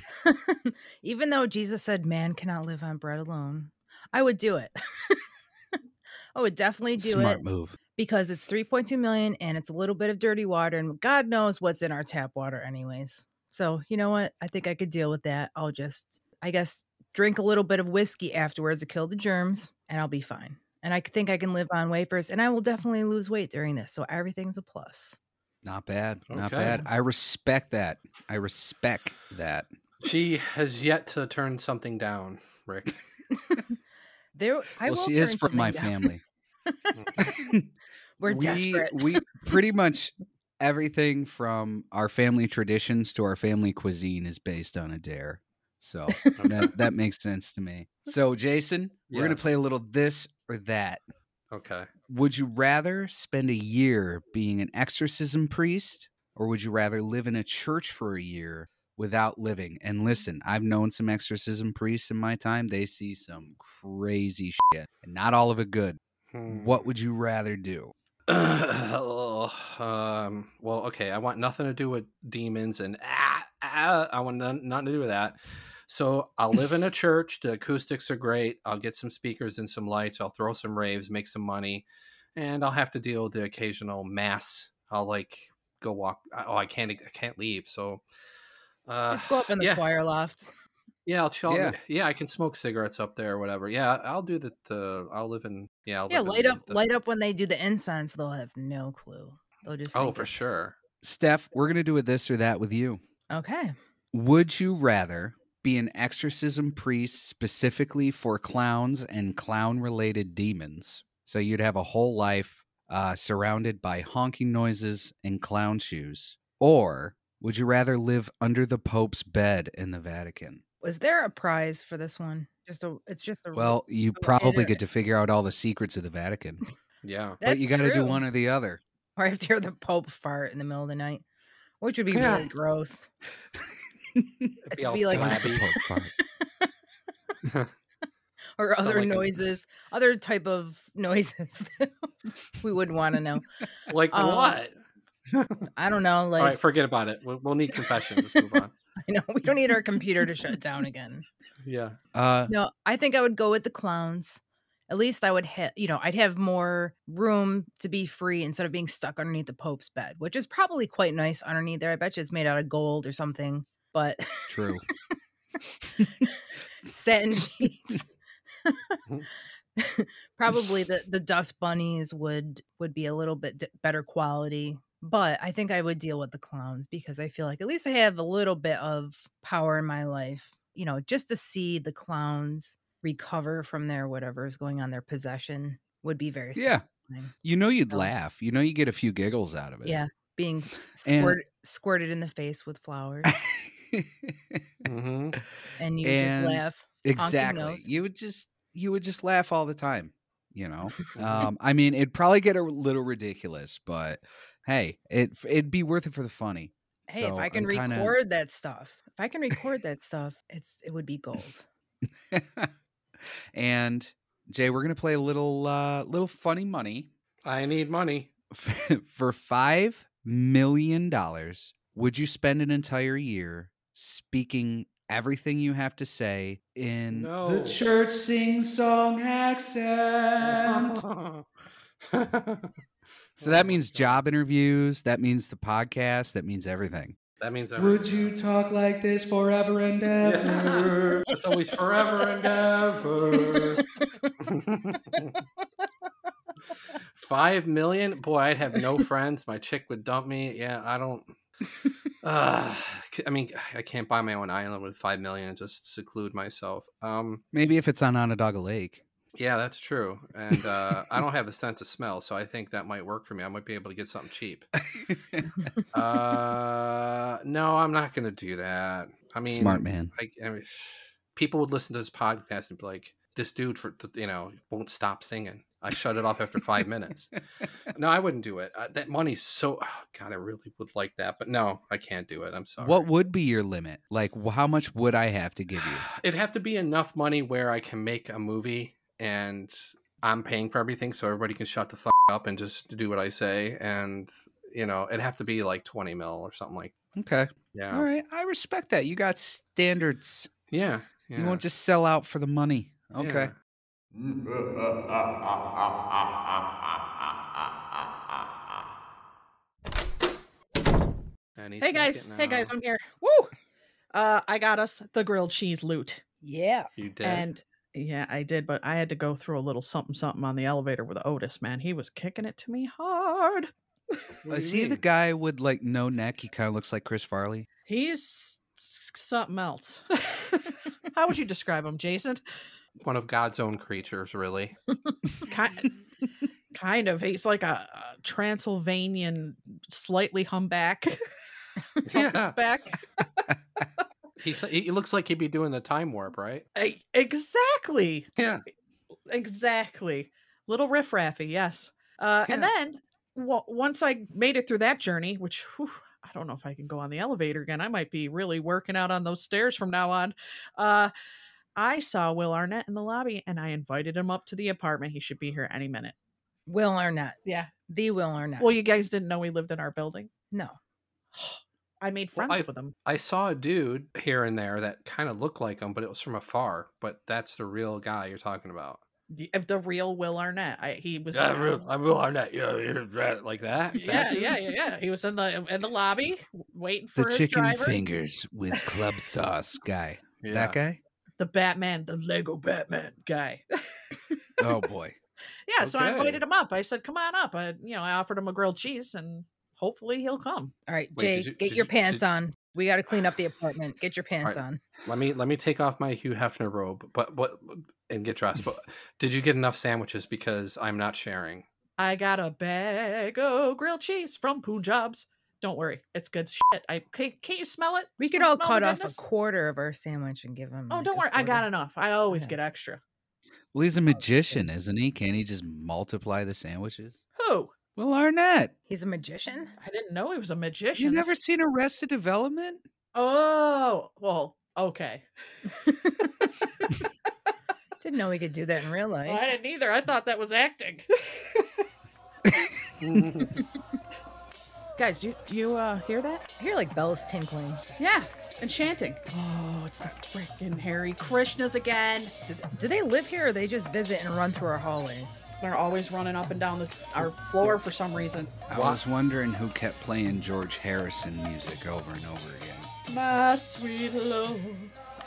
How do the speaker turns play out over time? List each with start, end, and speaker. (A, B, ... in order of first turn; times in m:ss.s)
0:00.2-0:05.2 A
0:06.4-0:07.4 A
0:07.0-0:07.8 B
0:08.0-0:25.2 A
0:25.6-0:29.7 B
0:26.3-0:26.8 C
0:30.0-0:33.0 C
0:34.4-0:36.1 A
0:34.8-0:36.2 B
0:36.8-0:37.3 A
0:37.2-0:37.7 B
0:38.2-0:39.3 A
0:38.3-0:51.0 B
0:46.1-0:46.4 A
0:46.4-0:46.7 C
0:49.1-0:49.5 C
0:51.5-0:51.9 C
0:52.1-1:07.9 B
1:06.3-1:06.8 C
1:08.3-1:15.4 C
1:15.9-1:28.0 C
1:28.9-1:29.8 C
1:29.1-1:30.5 A
1:31.1-1:36.8 C
1:31.5-1:31.8 B
1:36.1-1:40.5 A
1:39.9-1:40.8 C
1:41.0-1:43.0 B
1:43.3-1:43.7 A
1:44.1-2:00.6 B
2:00.8-2:04.8 A
2:03.5-2:06.6 B
2:07.0-2:07.4 C
2:07.4-2:08.2 A
2:07.4-2:08.8 B
2:09.2-2:11.2 A
2:11.8-2:13.1 A
2:14.1-2:16.1 B
2:14.7-2:15.7 C
2:14.8-2:15.8 A
2:18.6-2:22.1 A
2:18.8-2:19.4 C
2:22.6-2:23.4 A
2:23.9-2:24.8 C
2:24.1-2:24.6 A
2:25.8-2:26.6 A
2:26.4-2:28.7 C
2:29.0-2:31.3 A
2:31.6-2:32.0 C
2:32.1-2:32.5 B
2:32.5-2:44.5 A
2:44.5-2:44.8 B
2:46.9-2:48.1 A
2:48.6-2:49.0 A
2:49.8-3:07.3 A
3:06.6-3:06.8 B
3:07.4-3:10.0 B
3:09.8-3:13.3 A
3:11.0-3:11.4 B
3:13.3-3:14.7 B
3:14.8-3:15.4 C
3:15.8-3:17.9 A
3:16.0-3:28.2 B
3:21.1-3:21.5 C
3:27.1-3:31.6 A
3:32.3-3:32.7 B
3:33.5-3:37.1 B
3:37.4-3:38.3 C
3:38.5-3:51.0 B
3:47.1-3:47.8 C
3:50.4-3:51.5 C
3:52.0-3:52.7 C
3:53.4-3:54.2 C
3:53.4-3:57.2 B
3:57.4-3:58.3 C
3:57.8-4:01.2 B
4:00.2-4:03.8 C
4:04.4-4:05.4 C
4:07.2-4:11.3 C
4:12.2-4:17.4 C
4:17.5-4:19.0 B
4:19.4-4:24.7 C
4:24.9-4:25.5 B
4:25.9-4:37.4 C
4:29.5-4:30.1 B
4:37.9-4:43.1 C
4:42.8-4:46.1 B
4:45.8-4:56.9 C
4:57.2-5:00.5 B
4:57.7-4:58.1 C
5:00.7-5:01.6 C
5:01.4-5:03.5 B
5:03.2-5:03.5 C
5:11.6-5:12.7 C
5:11.8-5:13.5 D
5:14.1-5:16.2 D
5:16.4-5:16.9 A
5:17.0-5:17.5 C
5:17.2-5:23.7 D
5:24.4-5:25.0 C
5:24.5-5:27.7 B
5:27.9-5:32.4 D
5:33.0-5:34.8 C
5:35.5-5:35.9 D
5:36.7-5:41.2 D
5:42.1-5:42.6 C
5:42.1-5:43.2 D
5:44.4-5:46.6 C
5:46.8-5:48.3 D
5:48.4-5:48.6 C
5:49.3-6:01.1 D
5:52.5-5:52.7 C
6:01.8-6:06.2 D
6:06.7-6:08.7 A
6:07.4-6:07.7 D
6:08.6-6:10.3 D
6:11.4-6:12.9 D
6:12.4-6:19.0 C
6:19.3-6:21.8 D
6:21.3-6:24.5 C
6:24.0-6:28.0 D
6:27.2-6:31.0 B
6:30.4-6:30.8 C
6:31.4-6:33.6 D
6:34.6-6:35.2 B
6:35.7-6:40.7 D
6:35.8-6:36.4 C
6:40.9-6:44.8 A
6:41.2-6:42.2 C
6:44.4-6:51.7 C
6:52.0-6:59.2 D
6:58.2-7:01.7 A
7:00.9-7:03.0 D
7:02.3-7:02.6 A
7:03.7-7:07.2 B
7:07.4-7:07.8 D
7:08.0-7:08.7 B
7:08.9-7:09.7 A
7:09.8-7:11.3 D
7:11.0-7:12.8 B
7:13.1-7:15.3 D
7:18.0-7:19.4 A
7:19.3-7:21.7 D
7:23.0-7:23.6 C
7:25.0-7:26.5 D
7:26.6-7:27.8 A
7:28.0-7:32.4 D
7:32.6-7:35.4 A
7:35.6-7:38.6 D
7:38.7-7:42.9 B
7:38.7-7:39.0 C
7:43.1-7:44.9 D